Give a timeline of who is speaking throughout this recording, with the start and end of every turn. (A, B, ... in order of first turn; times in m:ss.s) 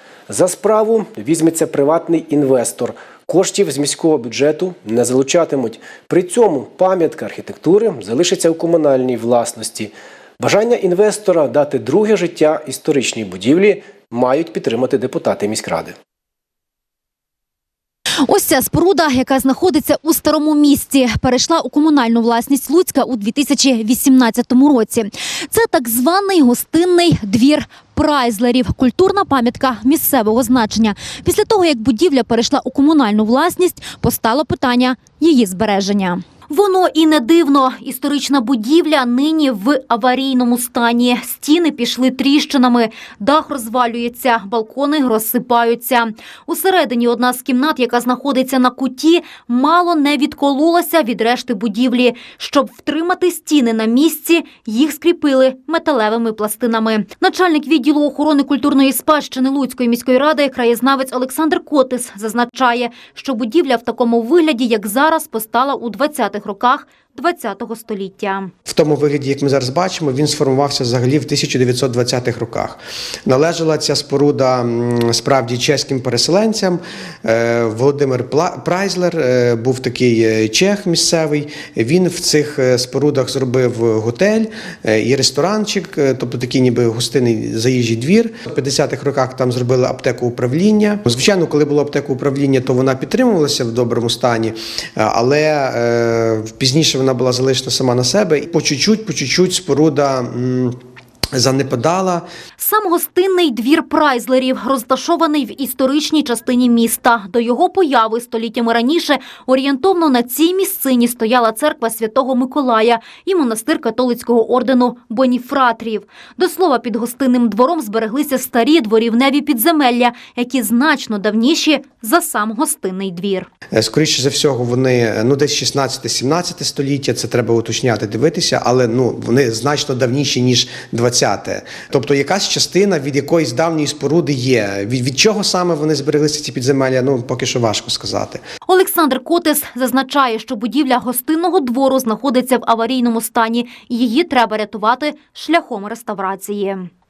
0:00.3-0:15.9 A
0:18.2-1:08.5 B
1:08.7-1:40.8 C
1:41.4-1:42.2 C
1:42.6-2:03.5 B
2:03.7-2:18.4 C
2:18.7-2:26.9 B